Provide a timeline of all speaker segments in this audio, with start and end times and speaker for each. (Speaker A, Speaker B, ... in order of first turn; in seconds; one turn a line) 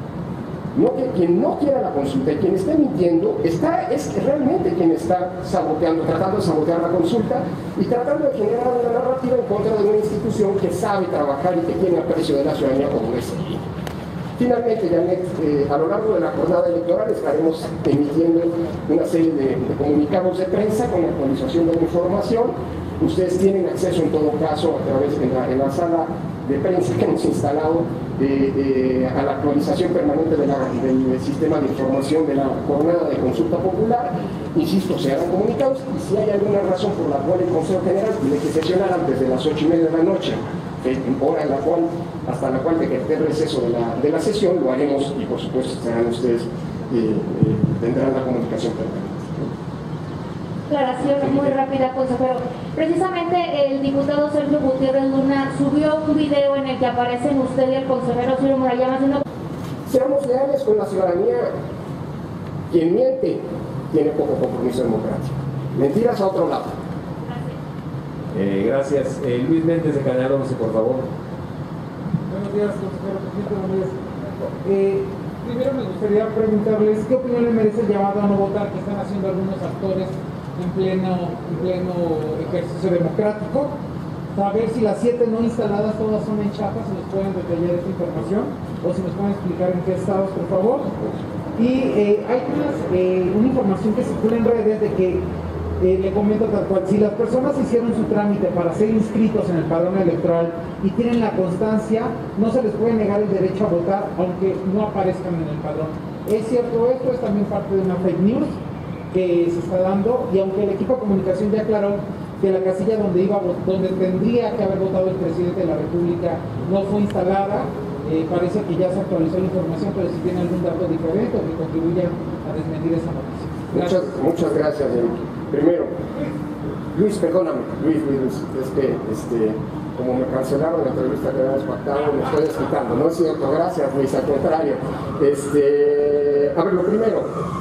Speaker A: 0.7-13.7
Speaker A: 14.4-49.4
Speaker B: 50.7-59.2
Speaker A: 59.9-61.5
Speaker A: 62.7-66.7
Speaker C: 68.3-71.1
Speaker D: 72.3-83.7
Speaker D: 84.3-90.9
Speaker D: 91.5-95.2
Speaker D: 95.8-108.6
Speaker D: 109.1-123.9
Speaker A: 123.7-125.9
Speaker A: 126.9-137.3